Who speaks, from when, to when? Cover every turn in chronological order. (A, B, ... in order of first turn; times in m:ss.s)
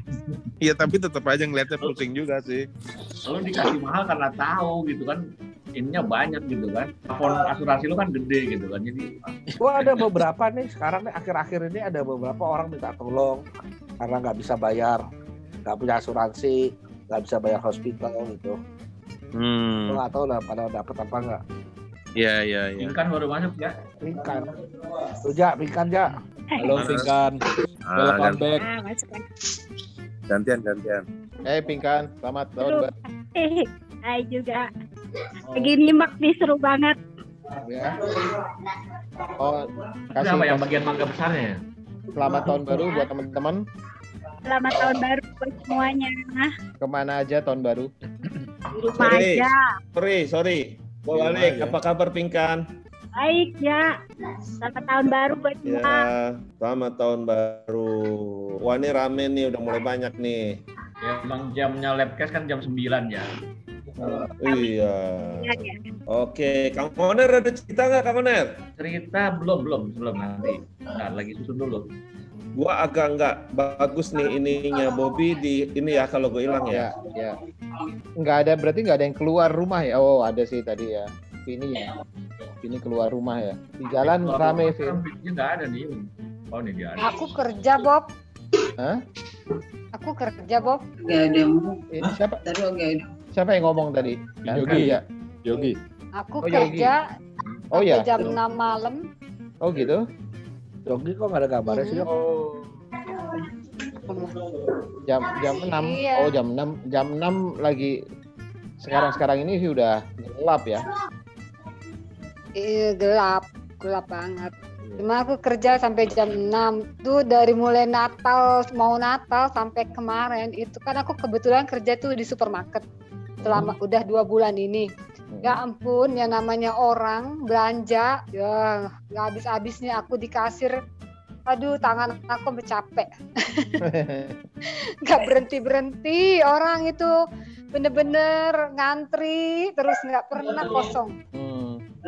0:00.1-0:00.4 A
0:00.6-0:02.6 B
0:03.2-0:05.2 A
0:05.8-0:09.3 A
0:09.6-0:13.4 C
0:14.0-0:15.0 C
0:15.6-0:18.6 C
0:19.3-0:20.0 B
0:19.9-0:21.4 C
0:22.2-0:23.0 B
0:22.8-0:23.8 A
0:24.0-0:24.5 C
0:25.2-0:26.2 C
0:26.5-0:26.9 D
0:26.6-0:27.4 E
0:26.7-0:27.1 B
0:27.8-0:28.6 B
0:28.0-0:28.4 E
0:28.6-0:29.2 D
0:30.3-0:31.0 B
0:31.4-0:32.9 F
0:32.6-0:34.7 D
0:35.5-0:37.0 D
0:37.6-0:38.0 C
0:39.4-0:40.8 F
0:40.1-0:41.6 A
0:42.1-0:43.6 F
0:42.4-0:43.1 D
0:44.4-0:46.5 D
0:46.8-0:47.9 F
0:48.7-0:49.6 D
0:48.8-0:52.6 G
0:53.2-0:53.8 D
0:54.6-0:56.1 D
0:55.6-1:00.6 G
1:01.0-1:03.3 A
1:04.0-1:08.5 G
1:04.4-1:04.7 D
1:05.4-1:05.8 D
1:08.8-1:11.9 A
1:12.5-1:16.9 G
1:16.7-1:17.4 F
1:18.2-1:21.9 F
1:22.6-1:25.0 F
1:24.0-1:27.2 A
1:27.0-1:28.1 H
1:29.9-1:30.8 H
1:31.0-1:33.0 I
1:31.9-1:32.4 F
1:33.3-1:35.0 F
1:34.5-1:34.9 A
1:34.5-1:35.8 E
1:36.2-1:37.0 H
1:36.4-1:36.9 F
1:37.5-1:38.4 F
1:37.7-1:39.0 H
1:39.6-1:40.0 F
1:40.8-1:42.1 C
1:41.7-1:42.0 H
1:42.1-1:42.6 F
1:45.0-1:48.0 F
1:45.7-1:46.3 H
1:48.8-1:50.8 F
1:52.6-2:02.8 H
2:03.4-2:03.7 F
2:03.4-2:04.9 H
2:05.3-2:05.6 F
2:05.4-2:10.8 H
2:11.5-2:13.8 H
2:13.8-2:14.4 F
2:15.0-2:17.1 H
2:17.7-2:21.2 H
2:21.3-2:21.8 F